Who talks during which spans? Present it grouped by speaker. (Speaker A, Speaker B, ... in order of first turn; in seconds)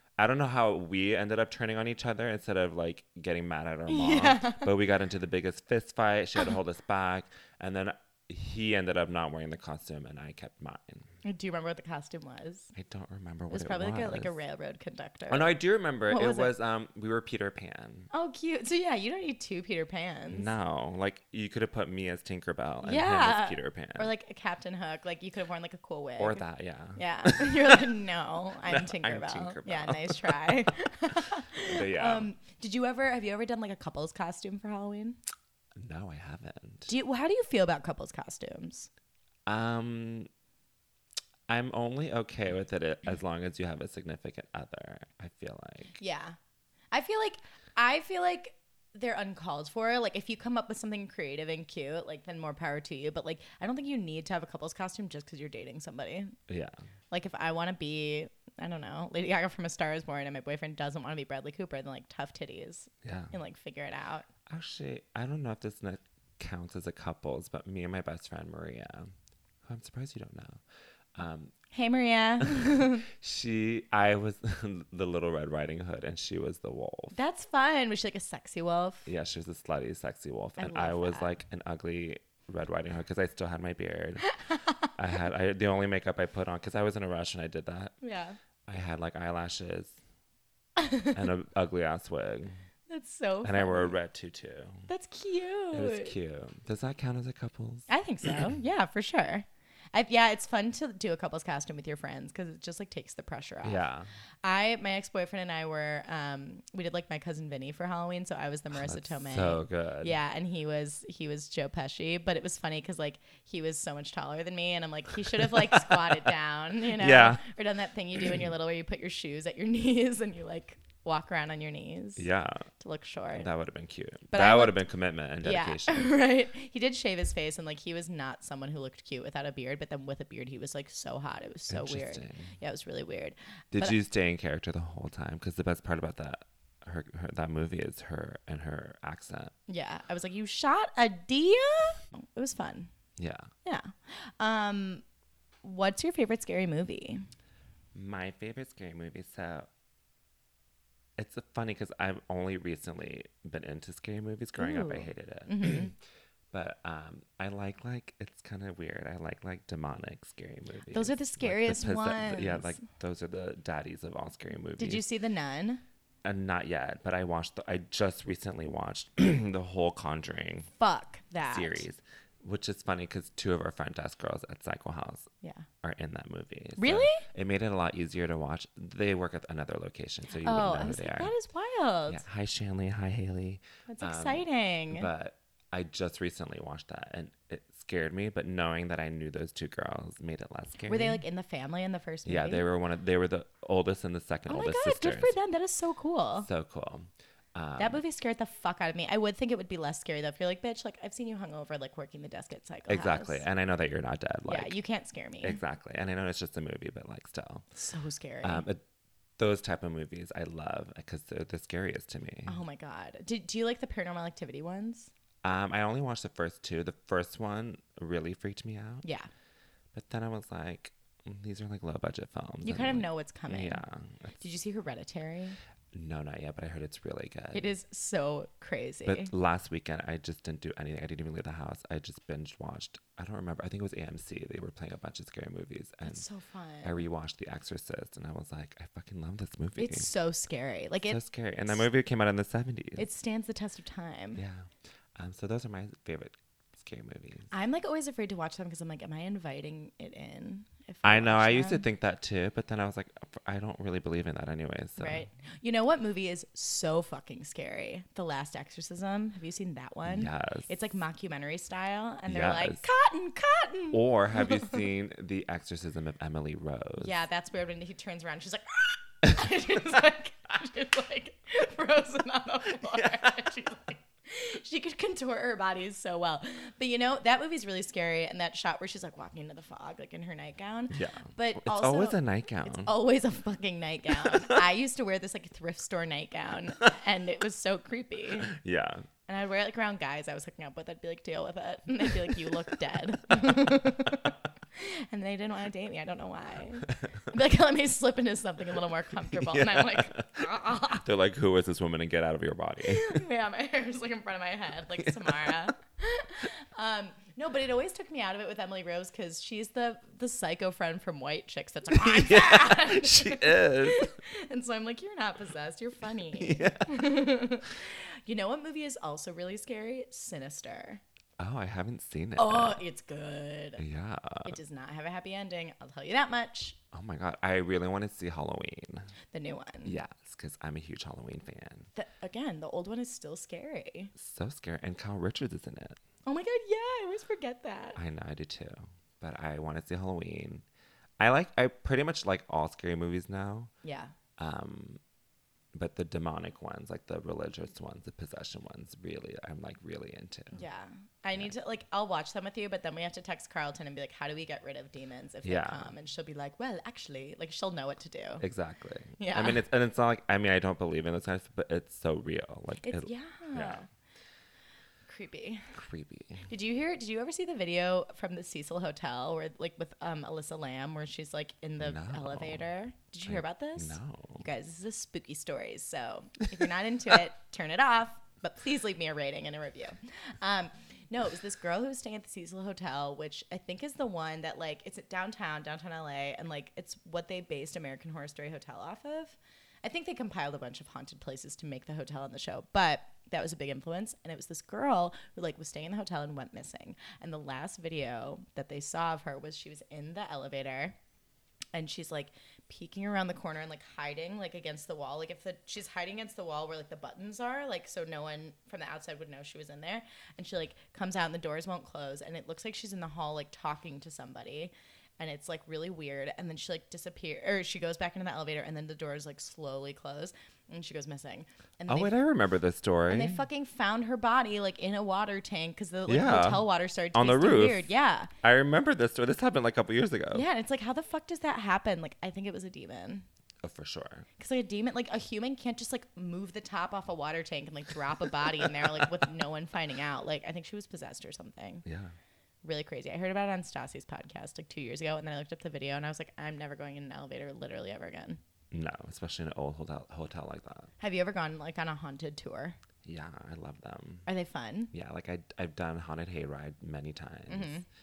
Speaker A: 0.2-11.1, 12.7-14.3, 15.3-18.1, 20.3-24.1, 26.2-27.9, 28.6-30.7, 31.5-32.3, 35.8-36.9, 39.5-40.3, 41.5-46.0, 56.5-56.8, 63.0-63.3, 64.5-69.1, 69.6-70.6, 71.1-71.5, 72.4-77.2, 79.0-84.3, 84.9-87.9, 88.7-90.0, 91.1-92.5, 93.4-94.9, 95.7-98.5, 103.6-104.1, 108.7-110.2, 115.4-116.2, 116.9-117.4, 122.2-122.7, 123.3-126.1, 131.7-132.5, 133.7-139.5, 143.2-143.5, 147.9-149.7, 151.2-155.9, 156.5-165.0, 166.2-170.7, 171.4-175.3, 175.8-181.3, 182.1-191.2, 192.2-195.3, 196.4-198.0, 202.9-204.8, 205.4-207.7, 208.4-208.8, 209.4-212.6, 215.4-219.0, 219.9-224.4, 225.9-227.7, 229.0-236.2, 236.8-240.1, 241.1-243.1, 244.3-247.5, 251.0-255.3, 260.0-260.7, 262.3-262.8, 263.9-267.2, 272.8-273.5, 280.9-282.9, 284.2-284.6, 288.4-289.1, 293.3-293.8, 299.2-303.2, 305.0-305.5, 311.9-314.1, 316.3-317.2, 321.4-322.8, 323.8-324.6, 326.9-329.1, 329.8-331.9, 334.1-336.0, 337.9-340.6, 341.2-343.7, 344.4-345.0, 345.7-350.6, 355.4-355.9, 358.4-363.8, 365.7-366.5, 371.8-372.7, 373.3-374.4, 421.9-423.4, 426.1-427.9, 428.4-430.4, 433.6-434.3, 441.8-442.1, 448.7-450.9, 453.0-454.3, 454.9-457.8
Speaker B: 3.9-4.7, 11.2-12.7, 13.5-16.5, 18.1-20.5, 22.8-26.4, 26.9-35.2, 36.9-38.9, 46.0-46.4, 46.9-56.4, 57.1-64.3, 71.7-73.0, 77.1-79.1, 80.6-81.3, 84.3-84.9, 88.0-88.4, 90.8-91.2, 92.9-94.0, 94.9-96.1, 97.9-103.9, 104.4-122.3, 122.8-123.5, 124.3-124.8, 125.4-134.0, 139.7-142.9, 143.6-145.0, 145.6-147.2, 154.6-155.9, 160.9-162.8, 164.8-165.8, 170.8-171.8, 176.8-177.2, 180.4-182.2, 183.9-185.1, 190.9-192.7, 194.5-196.5, 197.8-203.4, 204.5-205.6, 207.7-208.6, 212.5-215.1, 219.0-219.3, 222.6-223.8, 224.4-225.6, 227.5-229.3, 236.0-237.0, 239.8-241.8, 243.0-244.4, 247.5-251.8, 255.0-264.8, 267.0-288.5, 289.3-301.0, 302.8-321.0, 322.4-323.8, 324.4-326.8, 329.3-330.0, 331.9-334.1, 336.2-338.0, 343.8-344.1, 350.5-358.4, 359.2-359.6, 362.8-363.9, 365.1-365.7, 366.5-400.9, 401.7-422.1, 423.1-428.3, 430.3-433.2, 434.4-441.8, 442.6-448.4, 451.0-452.8, 454.3-454.9, 457.5-457.9